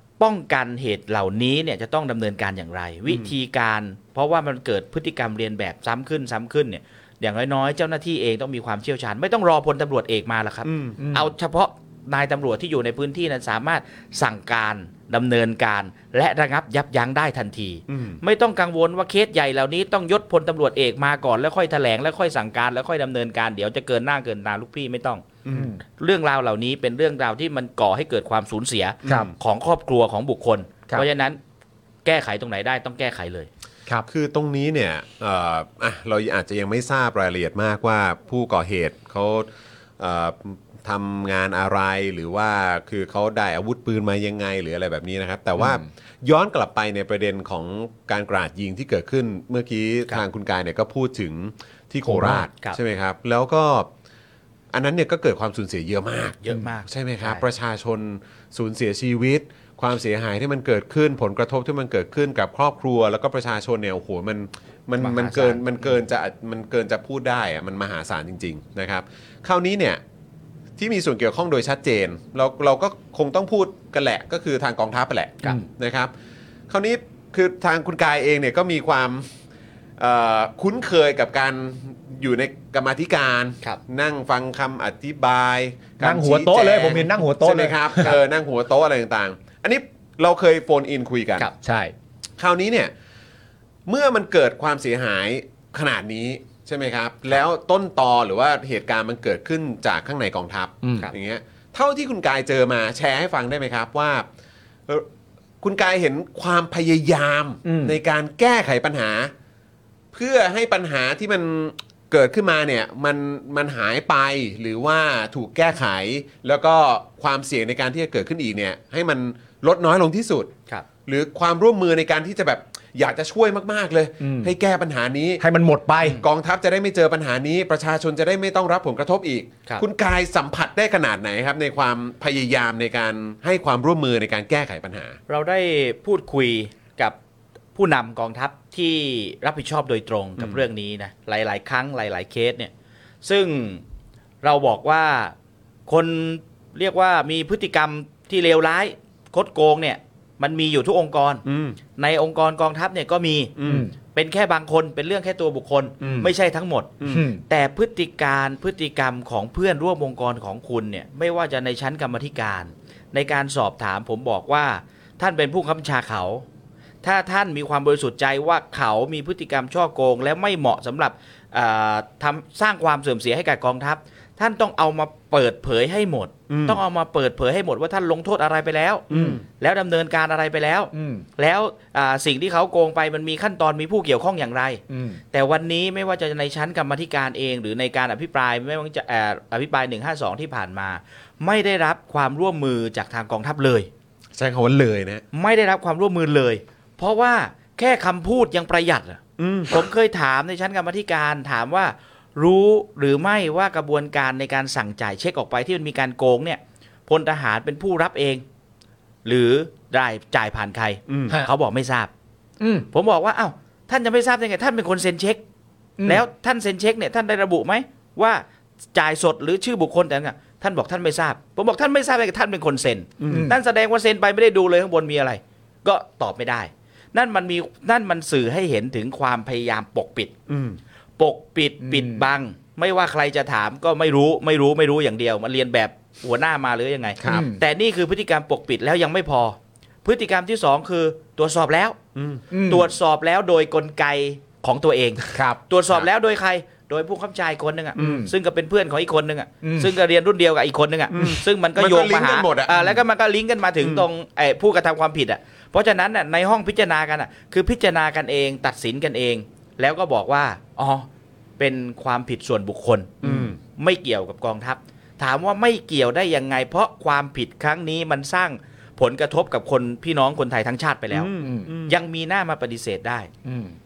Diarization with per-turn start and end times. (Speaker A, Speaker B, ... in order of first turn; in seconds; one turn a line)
Speaker A: 0.2-25.3
Speaker B: 3.1-3.3
Speaker B: 10.7-11.0
Speaker C: 11.0-11.3
Speaker B: 17.9-18.2
Speaker B: 25.4-25.7
Speaker C: 25.5-25.8
Speaker A: 26.0-31.4
Speaker C: 29.1-29.3
Speaker A: 32.0-33.5
Speaker B: 34.1-39.5
Speaker B: 40.0-53.9
Speaker C: 52.1-52.5
Speaker B: 54.7-70.0
Speaker A: 56.4-57.4
Speaker A: 65.0-65.9
Speaker B: 70.8-76.1
Speaker B: 76.7-79.3
Speaker B: 80.0-91.5
Speaker C: 86.0-88.2
Speaker C: 91.6-91.9
Speaker B: 92.4-92.9
Speaker B: 93.9-104.3
Speaker C: 100.8-101.1
Speaker B: 105.6-109.3
Speaker C: 107.7-108.0
Speaker B: 110.1-120.5
Speaker B: 121.1-125.4
Speaker C: 124.2-124.5
Speaker C: 125.4-126.2
Speaker B: 126.0-135.2
Speaker A: 135.3-137.2
Speaker A: 137.8-142.7
Speaker B: 140.4-140.6
Speaker A: 143.2-143.8
Speaker A: 144.4-145.3
Speaker A: 145.9-151.4
Speaker B: 151.4-151.8
Speaker A: 152.0-166.4
Speaker B: 153.6-153.9
Speaker C: 153.7-153.9
Speaker C: 156.0-156.3
Speaker B: 157.0-157.3
Speaker C: 157.1-157.4
Speaker A: 167.0-193.9
Speaker B: 176.5-176.8
Speaker B: 179.1-179.4
Speaker C: 179.1-179.4
Speaker C: 180.9-181.2
Speaker C: 184.9-185.2
Speaker B: 194.3-195.2
Speaker A: 195.3-208.4
Speaker B: 199.4-199.9
Speaker A: 209.2-212.1
Speaker B: 211.1-211.4
Speaker C: 212.6-212.9
Speaker A: 212.9-215.4
Speaker C: 216.0-216.2
Speaker A: 216.0-218.4
Speaker A: 218.9-230.3
Speaker B: 223.2-223.5
Speaker C: 223.3-223.6
Speaker B: 230.5-230.8
Speaker A: 231.2-242.0
Speaker C: 231.8-232.3
Speaker B: 237.2-237.5
Speaker C: 237.2-237.6
Speaker B: 242.2-242.4
Speaker C: 242.5-242.9
Speaker A: 242.5-261.1
Speaker C: 245.3-245.6
Speaker B: 248.0-248.3
Speaker C: 248.0-248.3
Speaker C: 249.6-249.9
Speaker B: 251.1-253.0
Speaker B: 253.8-254.1
Speaker A: 261.6-273.3
Speaker C: 263.2-263.5
Speaker B: 263.2-263.6
Speaker B: 271.1-272.0
Speaker C: 271.4-271.7
Speaker C: 273.4-273.8